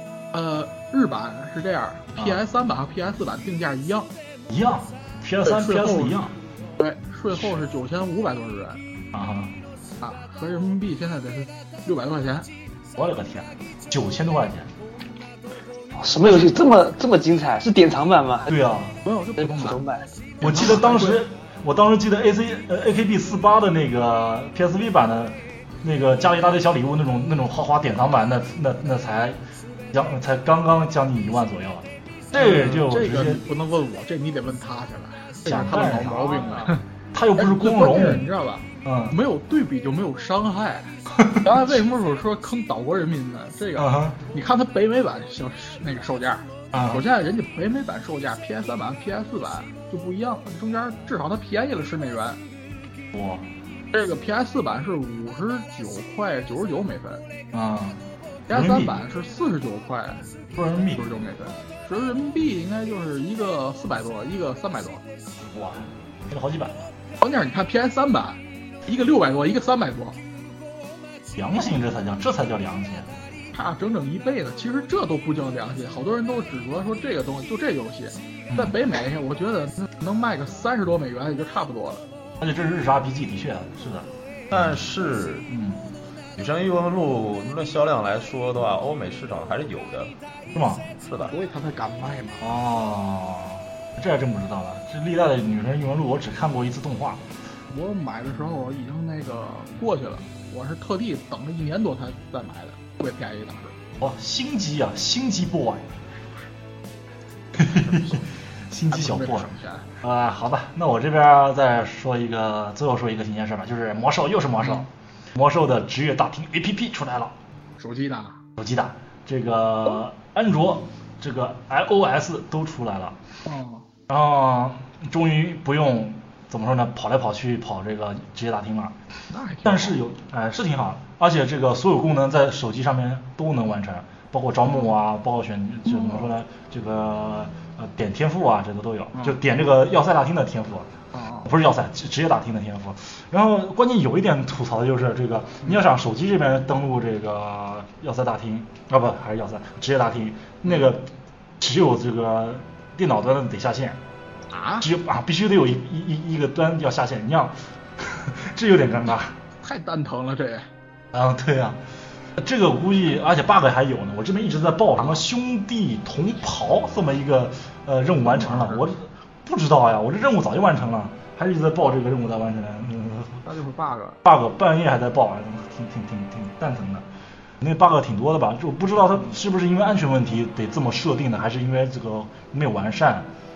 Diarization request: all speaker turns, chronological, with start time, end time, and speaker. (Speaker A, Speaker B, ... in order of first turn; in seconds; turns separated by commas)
Speaker A: 0.3-4.1, Speaker B: 4.5-6.4, Speaker A: 5.4-6.2, Speaker A: 6.8-8.8, Speaker B: 7.3-7.6, Speaker B: 9.1-9.6, Speaker A: 10.0-12.5, Speaker B: 13.0-14.7, Speaker C: 15.9-18.5, Speaker B: 18.5-19.0, Speaker A: 19.0-19.8, Speaker C: 19.4-20.1, Speaker A: 20.4-21.2, Speaker B: 20.4-29.4, Speaker B: 29.9-33.4, Speaker A: 32.3-36.8, Speaker B: 35.5-38.3, Speaker A: 37.4-52.4, Speaker B: 38.8-39.1, Speaker B: 41.1-41.5, Speaker B: 43.8-44.2, Speaker B: 46.7-47.0, Speaker B: 53.1-53.5, Speaker A: 53.9-57.2, Speaker B: 57.5-59.0, Speaker A: 58.5-60.2, Speaker B: 60.5-61.1, Speaker A: 60.9-65.0, Speaker B: 65.4-66.8, Speaker A: 67.2-70.2, Speaker B: 71.3-73.1, Speaker A: 73.5-82.1, Speaker B: 78.5-78.8, Speaker B: 82.4-84.8, Speaker D: 84.5-85.5, Speaker B: 85.5-85.8, Speaker D: 86.4-90.1, Speaker B: 90.5-90.9, Speaker D: 91.0-91.3, Speaker A: 91.3-92.4, Speaker B: 92.4-97.2, Speaker A: 97.7-103.8, Speaker B: 104.0-106.1, Speaker B: 107.5-117.3, Speaker A: 107.6-108.2, Speaker A: 108.9-109.9, Speaker A: 114.6-114.9, Speaker A: 117.8-118.4, Speaker B: 118.6-123.2, Speaker A: 123.4-123.9, Speaker B: 124.1-129.0, Speaker A: 129.3-130.0, Speaker B: 129.6-140.9, Speaker A: 135.9-136.3, Speaker A: 141.1-141.5, Speaker B: 141.4-154.0, Speaker A: 150.6-150.9, Speaker A: 154.5-154.9, Speaker B: 154.8-159.4, Speaker A: 159.6-160.7, Speaker B: 161.1-161.8, Speaker B: 162.4-173.4, Speaker A: 165.0-165.2, Speaker A: 168.2-168.9, Speaker A: 173.4-174.2, Speaker B: 174.2-177.1, Speaker B: 177.6-183.3